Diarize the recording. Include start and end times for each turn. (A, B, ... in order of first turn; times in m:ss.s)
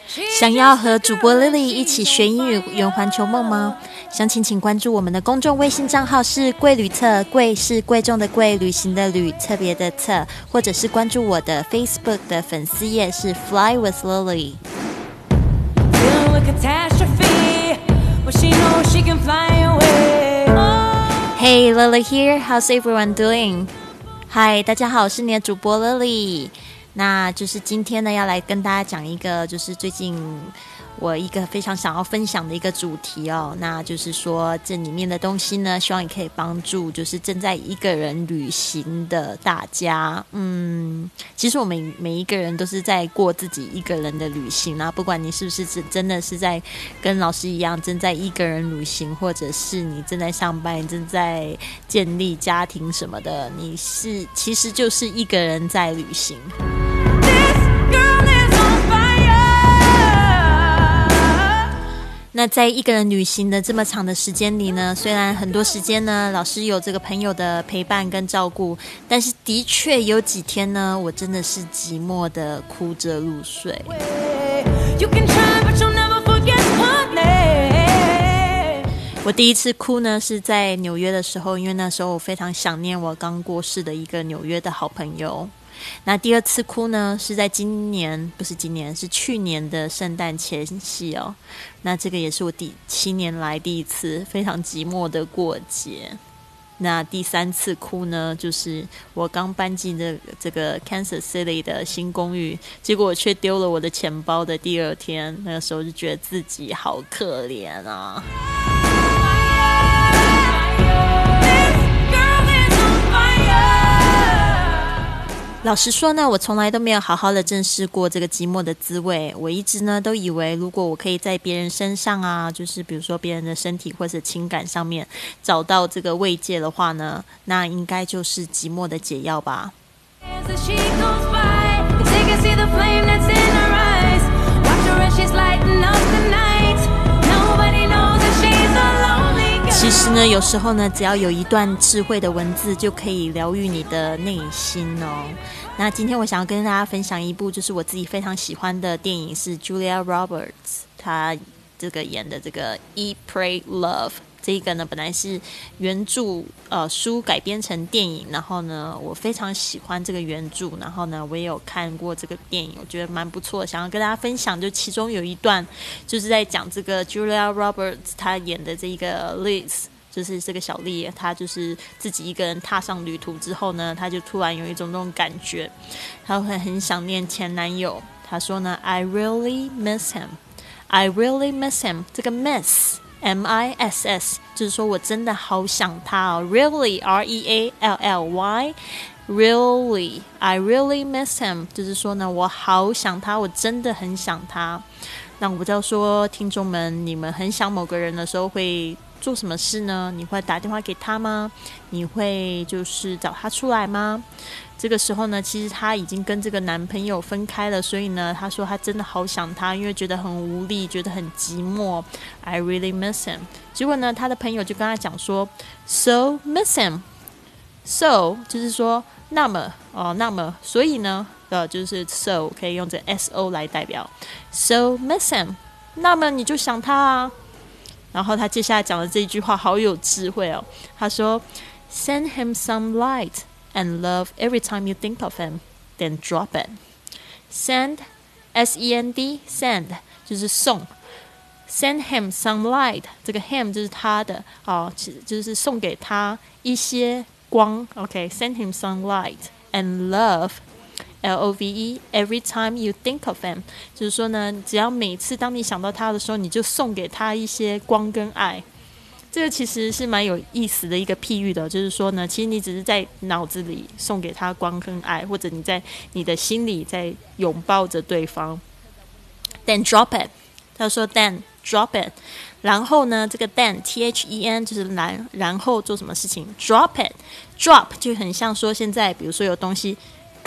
0:00.2-0:02.3 A
0:00.3-0:14.6 B
0:15.9-0:20.9 A
0:21.2-0:23.7 B
0:24.3-0:56.5 B
0:57.2-1:01.6 A
1:02.3-1:14.0 B
1:14.2-1:18.9 A
1:19.2-1:25.5 B
1:26.0-1:36.2 B
1:36.8-1:48.3 B
1:49.5-1:55.1 A
1:55.6-2:09.7 B
2:10.3-2:20.0 A
2:19.7-2:55.7 B
2:56.2-3:08.8 B
3:09.3-3:14.8 B
3:15.4-3:24.2 B
3:24.8-3:37.0 B
3:37.8-3:47.3 B
3:48.1-3:56.8 B
3:57.5-4:00.9 B
4:01.7-4:10.6 B
4:11.2-4:18.6 B
4:19.3-4:28.6 B
4:29.6-4:40.0 B